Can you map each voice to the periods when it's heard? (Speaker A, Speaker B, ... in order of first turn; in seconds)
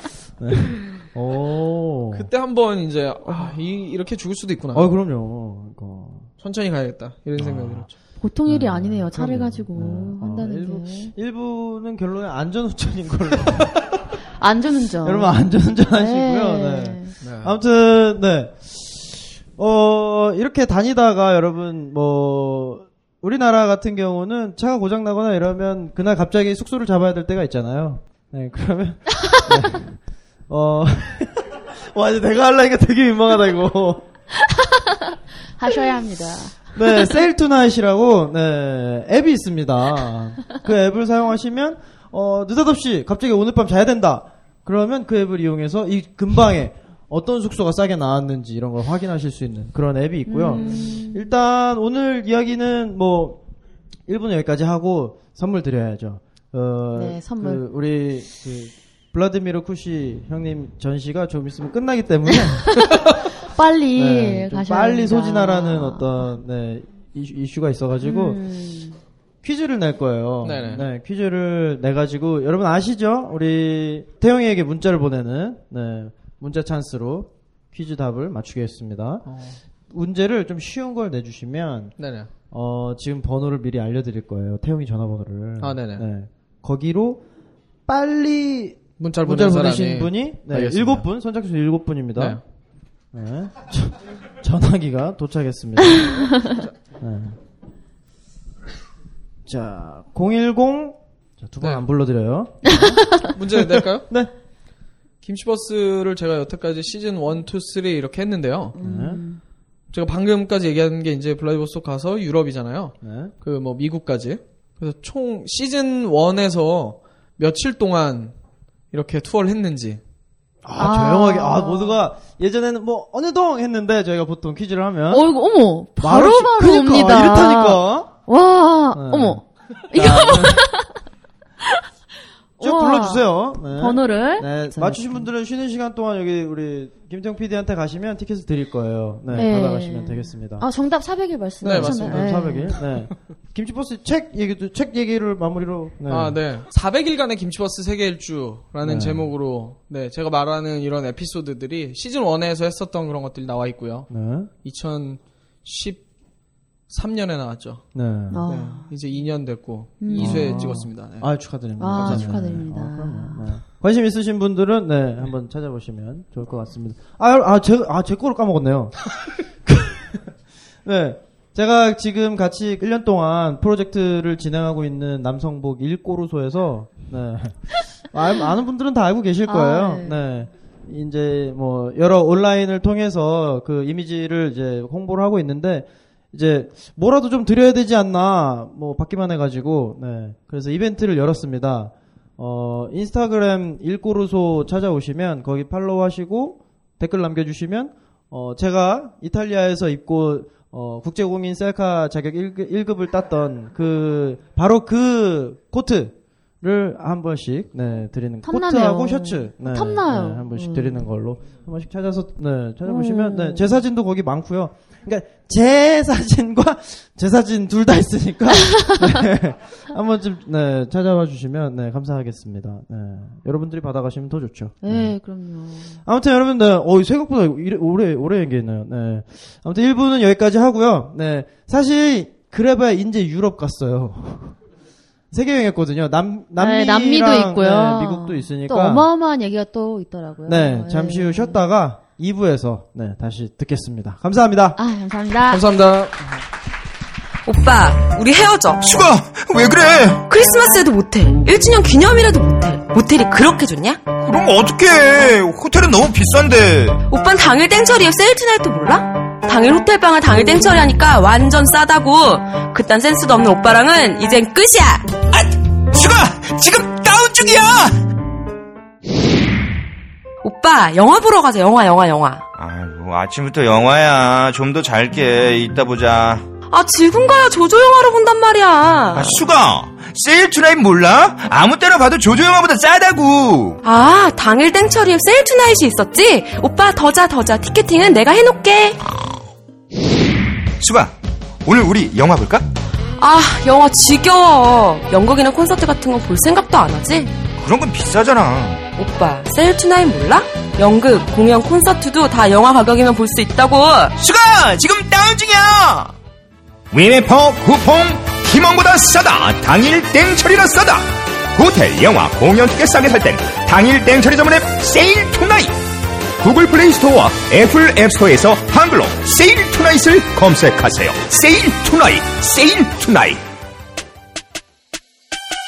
Speaker A: 0.4-2.3, 4.7-6.3, 7.4-7.9, 8.5-13.9, 15.0-30.0, 30.5-34.1, 36.8-53.4, 54.1-63.1, 63.9-68.4, 69.4-79.3, 79.9-82.0, 82.5-87.2, 87.9-92.4, 93.1-96.4, 97.0-97.4, 99.5-104.3, 108.8-109.2, 113.0-113.3, 120.6-125.3, 126.0-128.1, 128.9-130.6, 132.6-140.7, 141.6-146.4, 148.8-149.3, 154.1-154.5, 157.9-158.4, 160.1-169.1, 169.7-170.2, 170.8-225.2, 226.1-234.6, 235.3-239.1, 240.5-244.8
Speaker B: 2.1-4.9, 6.4-7.9, 17.2-17.6, 50.5-50.8, 70.4-70.9, 79.3-79.6, 82.0-82.3, 85.6-86.1, 89.0-91.0, 92.2-92.4, 96.4-96.7, 103.2-104.1, 105.2-108.8, 109.9-118.3, 118.9-120.0, 141.6-142.5, 146.1-154.1, 154.6-156.0, 156.9-157.8, 158.5-161.3, 161.9-162.5, 245.5-246.2
Speaker C: 8.2-11.1, 14.4-17.1, 29.3-29.8, 34.5-35.0, 35.6-37.1, 50.3-51.3, 57.0-57.6, 62.7-66.1, 68.0-69.0, 102.7-103.3, 108.8-109.4, 120.8-122.0, 125.1-130.9, 132.6-135.3, 139.3-142.8, 158.3-158.9, 160.0-160.7, 161.8-163.5, 179.5-180.3, 208.4-211.0, 212.8-213.8, 218.8-219.1, 224.8-226.0, 236.6-241.6, 244.8-245.6
Speaker D: 247.5-248.9, 250.3-254.0, 257.1-265.1, 270.4-272.4, 276.7-279.4, 283.8-289.0, 293.2-297.3, 299.0-304.1
Speaker E: 248.8-250.2, 254.2-257.0, 265.3-268.0, 272.6-276.5, 279.1-283.8, 290.8-291.1, 291.6-292.7, 297.6-298.9, 304.2-306.1, 306.9-315.8, 316.4-323.4